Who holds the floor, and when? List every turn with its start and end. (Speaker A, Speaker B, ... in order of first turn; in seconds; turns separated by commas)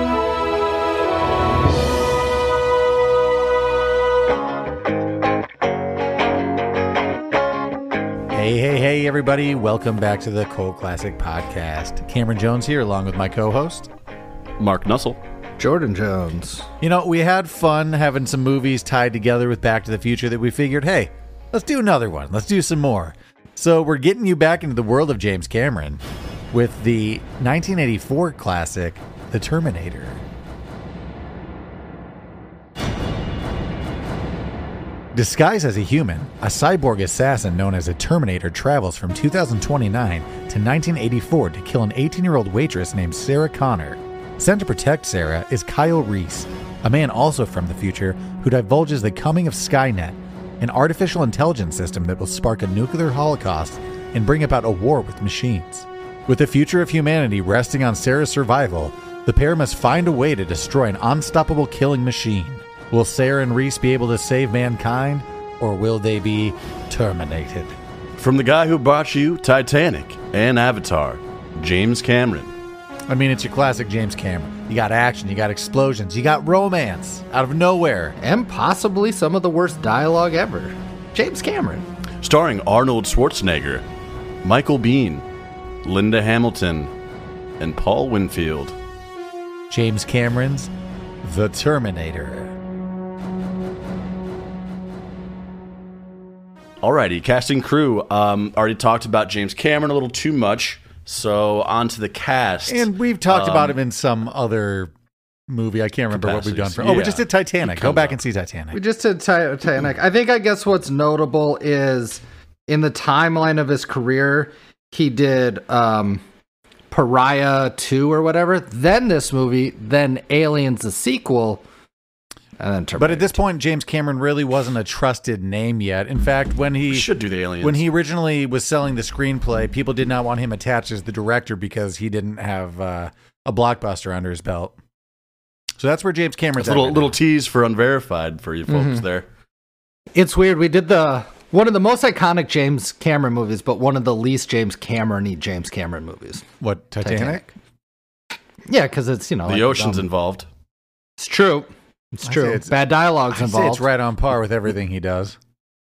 Speaker A: 8.3-13.9, Speaker B: 14.6-15.2, Speaker C: 15.6-16.7, Speaker A: 16.8-26.0, Speaker A: 26.5-30.2, Speaker A: 35.1-67.8, Speaker B: 68.2-72.5, Speaker A: 73.1-78.1, Speaker C: 78.2-81.8, Speaker B: 82.2-83.8, Speaker B: 84.4-85.2, Speaker B: 85.8-86.9, Speaker B: 87.6-88.8, Speaker A: 89.7-90.7, Speaker A: 91.2-92.5, Speaker B: 96.8-103.7, Speaker A: 102.7-104.9, Speaker A: 105.5-108.8, Speaker B: 106.1-108.2, Speaker C: 108.7-116.2, Speaker C: 116.9-121.6, Speaker C: 122.6-123.4, Speaker A: 123.0-127.1, Speaker B: 126.9-127.8, Speaker A: 127.6-134.7, Speaker A: 135.8-137.1, Speaker B: 136.6-139.2, Speaker C: 138.7-139.0, Speaker C: 140.1-146.4, Speaker A: 146.6-147.4, Speaker C: 147.0-147.5, Speaker C: 148.7-150.1, Speaker B: 149.4-150.4, Speaker C: 151.2-153.8, Speaker A: 152.2-152.8, Speaker A: 153.3-155.3